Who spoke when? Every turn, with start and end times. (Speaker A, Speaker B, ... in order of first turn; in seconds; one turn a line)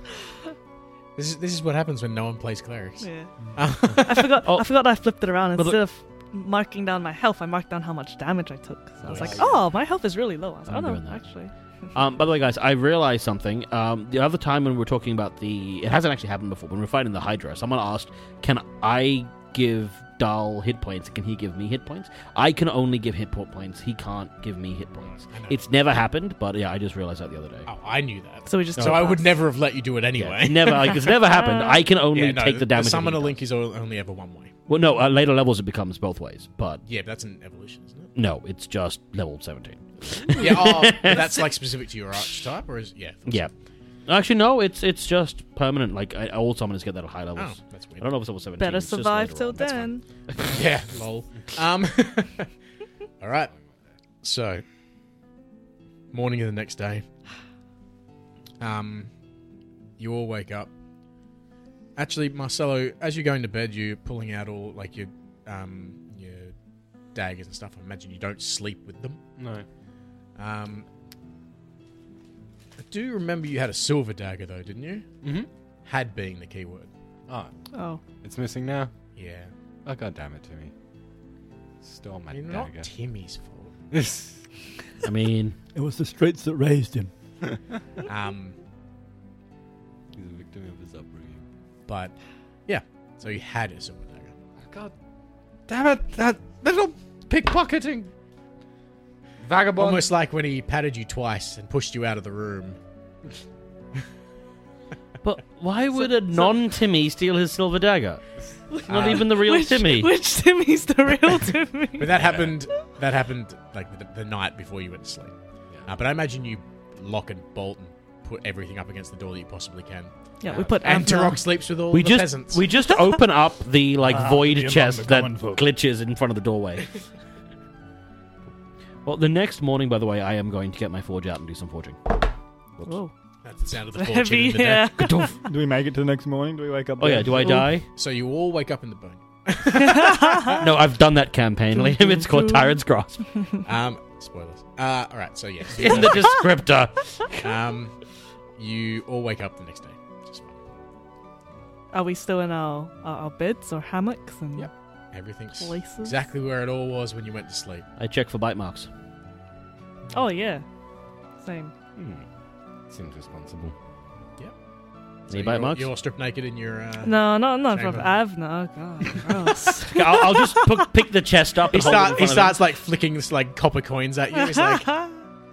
Speaker A: 1.1-4.4
Speaker B: 3.0-11.5
Speaker C: 4.4-4.7
Speaker C: 5.5-5.8
Speaker C: 9.1-9.5
Speaker A: 9.1-9.6
Speaker C: 10.7-11.3
Speaker C: 11.9-27.7
Speaker A: 25.1-25.6
Speaker A: 27.6-31.0
Speaker B: 28.4-29.4
Speaker C: 28.8-29.1
Speaker C: 30.1-33.4
Speaker B: 30.9-31.8
Speaker A: 32.1-34.5
Speaker C: 34.7-36.8
Speaker A: 36.8-38.1
Speaker C: 38.1-41.5
Speaker A: 40.4-43.5
Speaker C: 43.2-43.5
Speaker C: 44.0-50.6
Speaker A: 47.3-48.1
Speaker B: 48.6-50.1
Speaker A: 50.4-52.5
Speaker A: 53.2-53.5
Speaker A: 54.2-54.6
Speaker A: 56.1-57.1
Speaker A: 58.6-59.1
Speaker A: 60.0-60.7
Speaker A: 62.0-66.5
Speaker A: 67.1-69.2
Speaker D: 69.4-69.7
Speaker A: 70.3-70.8
Speaker A: 72.8-75.1
Speaker D: 75.2-75.5
Speaker A: 75.8-76.9
Speaker D: 77.3-77.5
Speaker B: 77.7-78.0
Speaker D: 78.1-78.9
Speaker A: 79.2-79.5
Speaker D: 79.8-80.7
Speaker D: 81.8-82.9
Speaker A: 82.3-83.7
Speaker D: 83.9-84.5
Speaker C: 85.0-85.6
Speaker E: 85.7-87.1
Speaker A: 88.0-88.5
Speaker D: 90.2-91.5
Speaker A: 91.9-92.1
Speaker A: 92.7-94.3
Speaker D: 94.6-94.9
Speaker D: 95.7-98.1
Speaker D: 99.4-100.1
Speaker A: 99.8-102.8
Speaker C: 105.2-108.2
Speaker B: 105.9-106.6
Speaker B: 108.7-112.1
Speaker A: 108.9-109.2
Speaker C: 108.9-110.1
Speaker A: 112.0-115.3
Speaker D: 112.2-112.5
Speaker A: 115.8-122.6
Speaker B: 120.4-121.4
Speaker C: 121.9-127.0
Speaker E: 124.0-125.7
Speaker C: 129.0-132.9
Speaker B: 132.8-133.1
Speaker A: 133.4-135.0
Speaker B: 133.9-135.3
Speaker C: 135.0-135.4
Speaker E: 135.4-137.7
Speaker C: 137.0-137.9
Speaker A: 137.9-140.6
Speaker B: 139.8-140.6
Speaker C: 140.6-143.3
Speaker B: 141.7-142.8
Speaker A: 143.6-146.4
Speaker C: 145.8-147.4
Speaker A: 147.4-147.9
Speaker A: 148.6-150.5
Speaker B: 151.9-154.7
Speaker A: 155.1-157.9
Speaker B: 155.6-156.1
Speaker C: 158.0-158.9
Speaker B: 160.1-160.6
Speaker B: 161.4-161.7
Speaker D: 161.9-162.2
Speaker D: 162.9-163.7
Speaker A: 165.3-168.2
Speaker C: 165.3-165.9
Speaker B: 167.0-170.9
Speaker C: 169.9-172.6
Speaker A: 171.7-175.0
Speaker B: 174.6-175.2